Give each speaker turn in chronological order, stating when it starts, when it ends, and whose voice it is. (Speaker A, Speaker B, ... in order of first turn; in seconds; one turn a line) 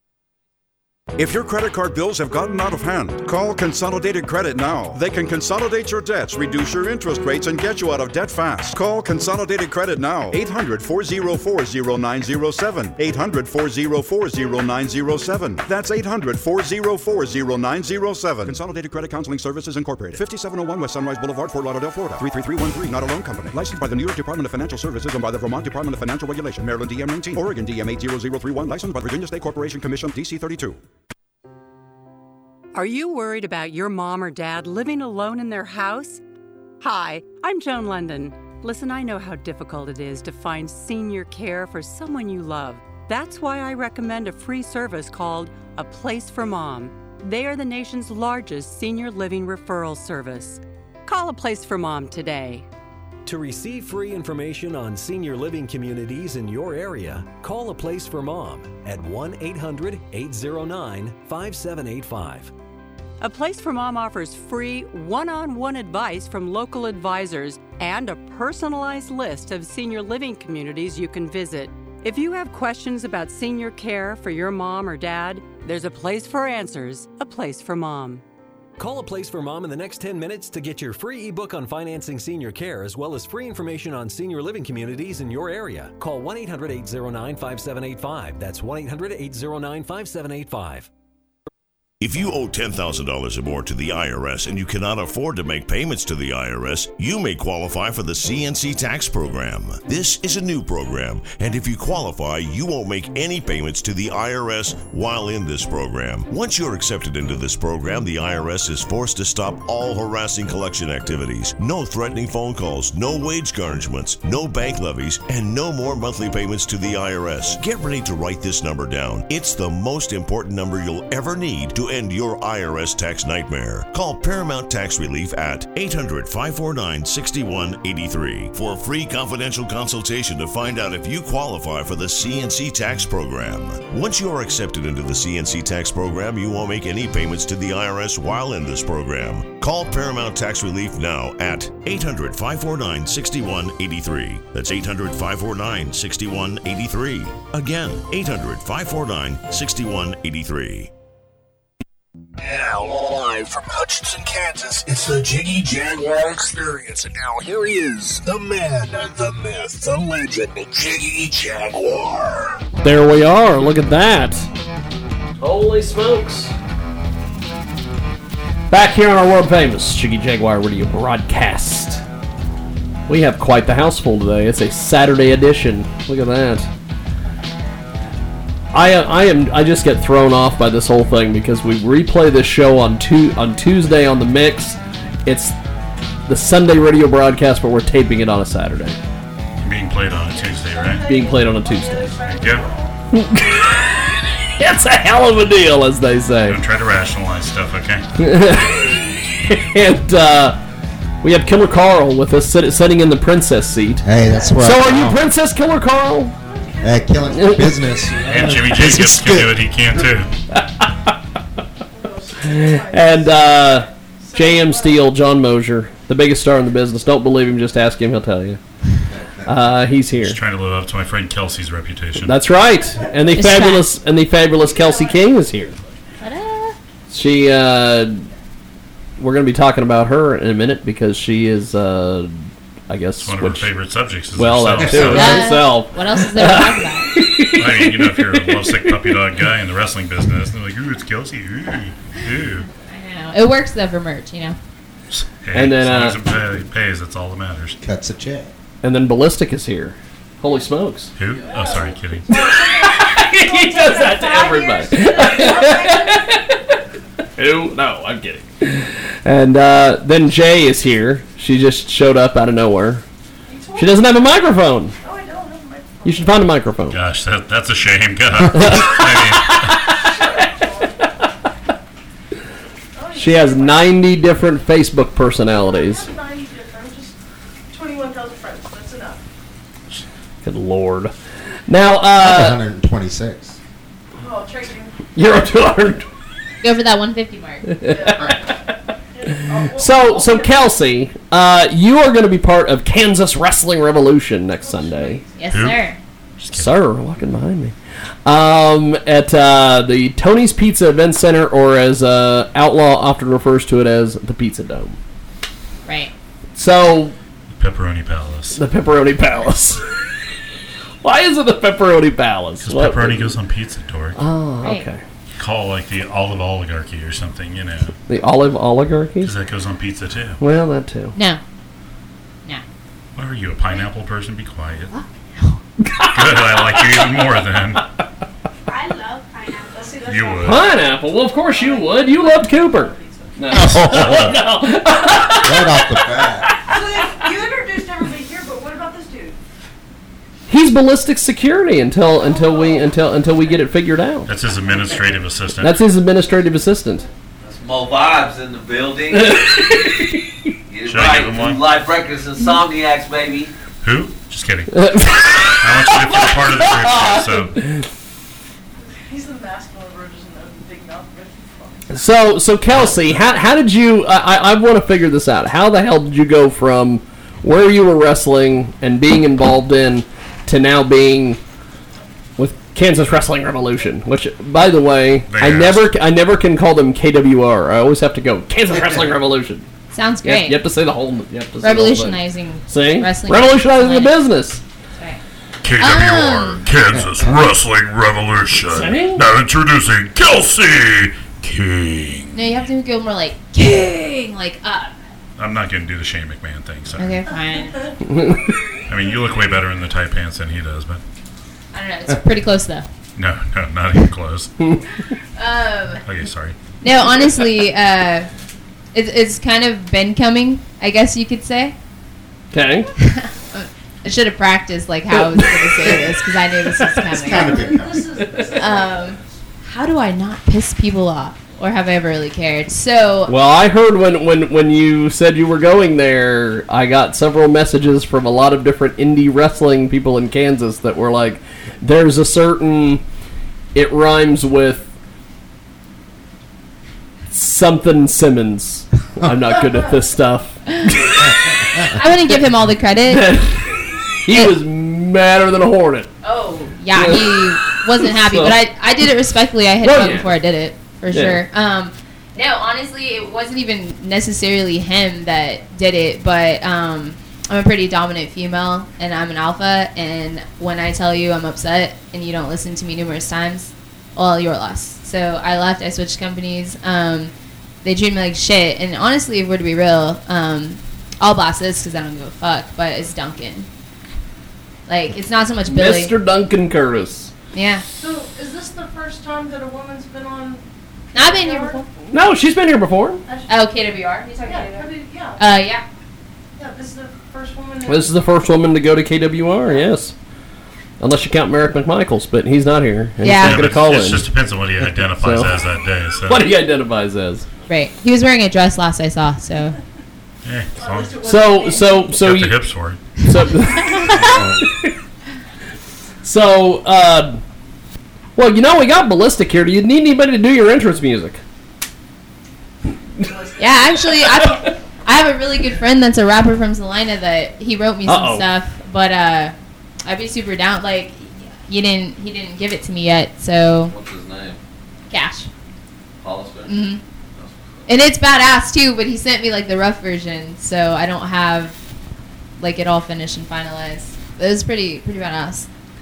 Speaker A: 1.2-30.8
Speaker B: 32.7-36.2
Speaker B: 36.8-52.7
Speaker C: 53.2-62.5
Speaker B: 63.2-78.2
Speaker C: 78.8-90.9
Speaker D: 92.0-150.9
Speaker E: 152.4-162.6
Speaker F: 162.8-164.5
Speaker F: 165.4-166.6
Speaker F: 168.7-172.0
Speaker F: 173.1-176.7
Speaker F: 178.7-185.6
Speaker F: 186.3-189.0
Speaker G: 189.6-191.1
Speaker H: 190.4-192.9
Speaker F: 191.1-192.2
Speaker G: 192.2-192.7
Speaker F: 193.1-196.6
Speaker G: 196.5-198.1
Speaker F: 198.2-200.6
Speaker F: 201.2-206.3
Speaker I: 204.0-205.2
Speaker H: 204.2-204.7
Speaker H: 206.4-207.2
Speaker I: 206.8-209.7
Speaker F: 207.3-207.8
Speaker G: 208.2-210.3
Speaker F: 210.5-211.1
Speaker H: 211.9-215.1
Speaker F: 212.4-218.6
Speaker F: 219.5-220.4
Speaker G: 220.2-222.4
Speaker F: 222.2-225.8
Speaker H: 222.7-223.4
Speaker J: 223.4-223.9
Speaker H: 224.6-225.2
Speaker J: 226.2-226.8
Speaker F: 227.1-228.3
Speaker F: 229.2-233.7
Speaker G: 233.2-235.6
Speaker F: 234.4-239.2
Speaker J: 235.1-237.1
Speaker G: 237.6-242.7
Speaker J: 242.8-244.6
Speaker G: 245.1-247.8
Speaker F: 245.5-246.2
Speaker I: 247.8-248.5
Speaker F: 248.8-251.2
Speaker G: 251.2-252.3
Speaker H: 251.4-256.3
Speaker F: 252.3-256.6
Speaker F: 257.4-263.0
Speaker H: 263.5-264.1
Speaker F: 263.8-264.9
Speaker H: 265.0-266.4
Speaker F: 266.0-267.0
Speaker G: 266.9-270.0
Speaker F: 268.6-270.0
Speaker H: 270.0-271.0
Speaker H: 273.0-273.9
Speaker F: 273.1-276.1
Speaker H: 275.6-277.2
Speaker H: 277.7-279.2
Speaker F: 280.4-281.1
Speaker F: 281.7-282.6
Speaker I: 282.2-283.6
Speaker H: 284.2-285.0
Speaker F: 285.1-286.1
Speaker J: 286.6-287.7
Speaker F: 287.8-288.4
Speaker H: 287.9-288.5
Speaker H: 289.1-290.7
Speaker F: 289.5-295.2
Speaker H: 294.6-295.4
Speaker J: 295.4-296.0
Speaker G: 295.5-295.9
Speaker G: 296.4-296.8
Speaker F: 296.5-305.0
Speaker J: 305.9-306.1
Speaker F: 306.6-307.1
Speaker G: 307.6-308.6
Speaker F: 308.6-309.8
Speaker F: 311.0-313.4
Speaker G: 312.6-314.2
Speaker F: 314.2-315.0
Speaker G: 315.4-317.9
Speaker F: 318.1-319.3
Speaker G: 319.2-320.4
Speaker F: 320.4-321.2
Speaker J: 321.1-321.4
Speaker G: 323.2-324.9
Speaker J: 324.9-325.6
Speaker F: 325.9-326.6
Speaker G: 326.1-327.8
Speaker H: 328.7-333.5
Speaker G: 330.0-330.7
Speaker F: 330.4-335.8
Speaker I: 333.5-334.4
Speaker I: 335.3-336.5
Speaker H: 336.7-339.4
Speaker F: 340.5-344.3
Speaker H: 342.2-342.9
Speaker G: 344.3-345.8
Speaker F: 345.6-347.1
Speaker K: 347.4-349.3
Speaker F: 349.1-350.2
Speaker K: 350.7-353.5
Speaker G: 350.9-351.6
Speaker G: 353.8-354.8
Speaker F: 354.8-357.8
Speaker G: 355.6-357.6
Speaker H: 358.8-362.0
Speaker F: 361.9-371.4
Speaker F: 372.4-379.6
Speaker G: 375.3-375.9
Speaker J: 379.9-380.6
Speaker F: 380.2-384.6
Speaker J: 381.6-384.2
Speaker G: 385.6-392.4
Speaker J: 385.8-386.6
Speaker I: 387.0-387.2
Speaker F: 388.7-389.3
Speaker J: 392.3-394.9
Speaker G: 395.4-397.2
Speaker J: 397.0-397.9
Speaker H: 397.6-397.9
Speaker F: 398.1-398.5
Speaker G: 398.9-401.0
Speaker J: 401.7-402.9
Speaker G: 403.2-404.5
Speaker J: 405.4-406.0
Speaker G: 406.1-406.6
Speaker J: 406.8-408.3
Speaker J: 408.9-411.8
Speaker F: 412.5-412.9
Speaker J: 413.0-417.8
Speaker I: 417.1-418.1
Speaker H: 417.3-419.2
Speaker J: 418.6-423.3
Speaker F: 423.3-433.0
Speaker F: 433.8-434.9
Speaker F: 437.3-441.2
Speaker H: 439.6-439.9
Speaker J: 441.9-443.3
Speaker F: 443.1-443.7
Speaker F: 444.2-446.1
Speaker J: 446.2-467.3
Speaker F: 447.0-448.6
Speaker F: 449.8-450.3
Speaker F: 451.1-451.4
Speaker J: 467.8-473.7
Speaker J: 474.9-476.1
Speaker F: 475.7-477.3
Speaker J: 477.5-477.8
Speaker H: 478.0-482.1
Speaker J: 481.1-481.8
Speaker F: 482.1-483.2
Speaker H: 483.2-483.5
Speaker J: 483.5-485.8
Speaker H: 484.4-485.4
Speaker H: 486.6-488.1
Speaker F: 487.9-490.1
Speaker F: 491.0-494.3
Speaker J: 493.2-493.7
Speaker G: 493.4-496.5
Speaker F: 494.8-495.6
Speaker F: 496.3-497.5
Speaker J: 497.7-499.8
Speaker G: 500.4-501.2
Speaker H: 500.8-502.1
Speaker F: 501.2-502.6
Speaker G: 502.2-503.0
Speaker F: 503.2-504.1
Speaker J: 503.8-504.4
Speaker I: 504.2-504.6
Speaker F: 506.2-507.4
Speaker F: 508.4-511.4
Speaker H: 513.2-514.1
Speaker J: 513.6-519.5
Speaker F: 514.4-514.7
Speaker F: 518.1-518.5
Speaker J: 520.0-523.9
Speaker K: 523.9-524.6
Speaker J: 525.1-525.5
Speaker K: 526.2-527.9
Speaker J: 526.7-527.0
Speaker J: 527.9-531.8
Speaker J: 532.6-535.7